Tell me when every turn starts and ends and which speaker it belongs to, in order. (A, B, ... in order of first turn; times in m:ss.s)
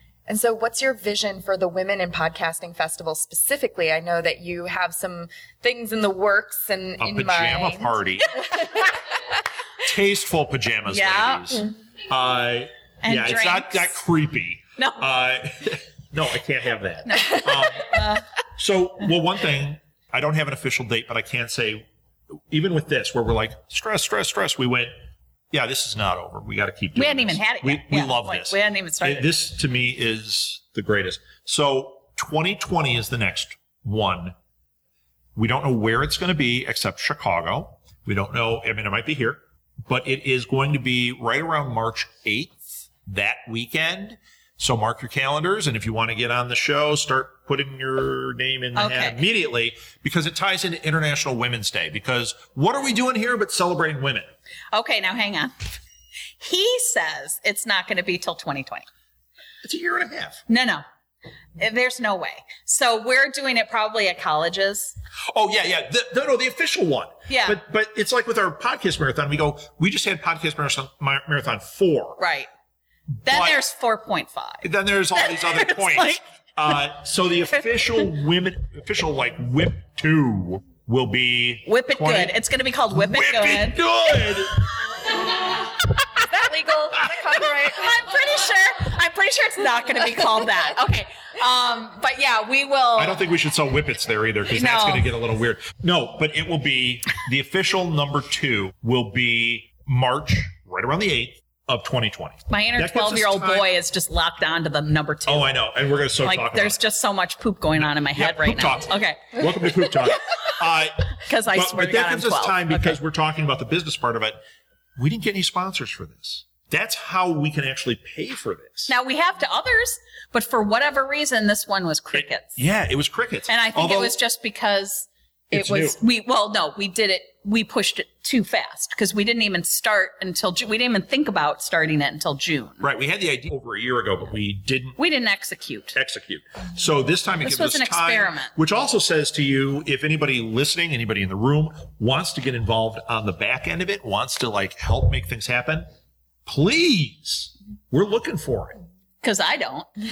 0:00.3-0:08.9 A
0:07.0-0:08.4 B
0:09.8-0:18.0 B
0:10.9-0:11.6 C
0:13.0-0:13.9 C
0:14.8-0:15.0 C
0:17.0-0:18.2 C
0:18.6-0:21.8 B
0:22.5-0:24.9 B
0:25.5-0:34.3 B
0:27.0-0:29.3 C
0:35.3-0:54.3 B
0:48.8-0:49.2 C
0:54.7-0:55.8 C
0:56.4-0:58.8 C
0:59.6-1:00.4 B
1:00.5-1:00.8 C
1:01.6-1:05.0 C
1:05.3-1:12.2 B
1:07.3-1:07.6 C
1:12.2-1:12.5 C
1:13.2-1:13.6 B
1:13.2-1:16.2 C
1:14.6-1:22.3 B
1:21.6-1:23.8 C
1:22.9-1:24.9 B
1:26.3-1:28.1 A
1:27.4-1:33.2 C
1:33.0-1:43.7 B
1:34.5-1:35.0 C
1:42.5-1:45.6 C
1:45.3-1:46.8 B
1:46.2-1:50.2 C
1:47.8-1:54.4 B
1:51.2-1:53.0 C
1:55.0-1:58.9 B
1:58.9-2:02.6 C
2:02.1-2:04.1 B
2:03.5-2:12.8 C
2:05.5-2:06.0 B
2:12.8-2:15.0 B
2:15.0-2:16.0 C
2:15.9-2:25.8 B
2:17.4-2:18.5 C
2:26.4-2:28.8 B
2:29.2-2:29.9 C